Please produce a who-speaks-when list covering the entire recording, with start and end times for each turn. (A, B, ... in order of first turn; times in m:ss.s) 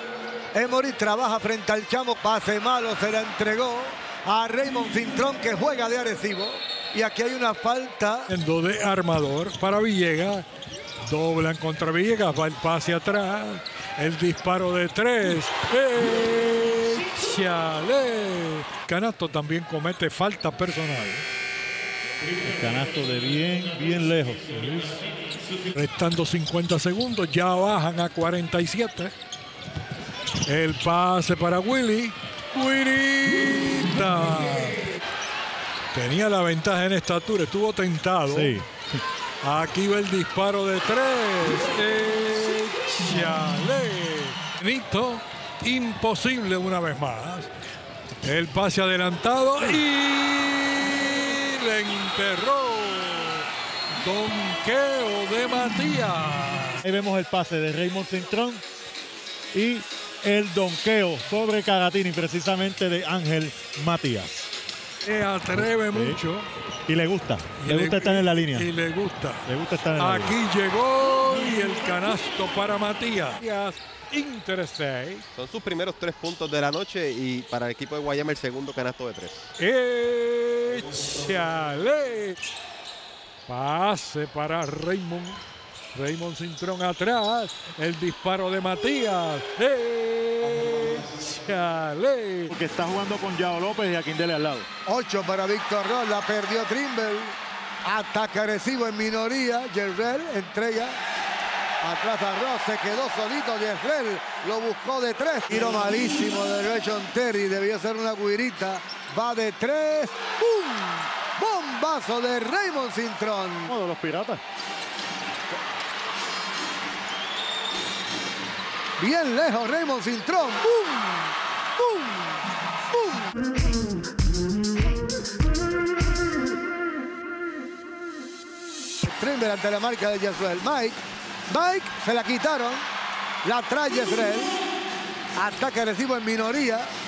0:00.5-0:08.3 A
0:08.3-0:10.5 B
0:11.1-0:21.2 B
0:22.4-0:24.6 C
0:24.6-0:25.0 B
0:25.7-0:29.1 B
0:30.5-0:34.8 B
0:35.9-0:38.6 B
0:38.3-0:38.7 C
0:39.4-0:47.5 B
0:48.2-0:53.5 B
0:54.0-0:56.8 B
0:56.8-0:58.6 C
0:59.5-1:04.5 C
1:05.0-1:06.5 B
1:05.6-1:06.2 C
1:06.9-1:08.7 C
1:07.6-1:15.2 B
1:09.5-1:10.4 C
1:15.3-1:19.5 D
1:19.6-1:22.4 B
1:23.5-1:25.4 B
1:25.9-1:32.5 B
1:32.5-1:34.7 C
1:34.9-1:41.0 A
1:41.8-1:53.8 A
1:53.7-1:54.4 C
1:59.0-2:02.3 A
2:02.9-2:03.3 A
2:09.0-2:11.0 A
2:11.5-2:12.8 A
2:13.4-2:14.6 A
2:15.4-2:16.9 A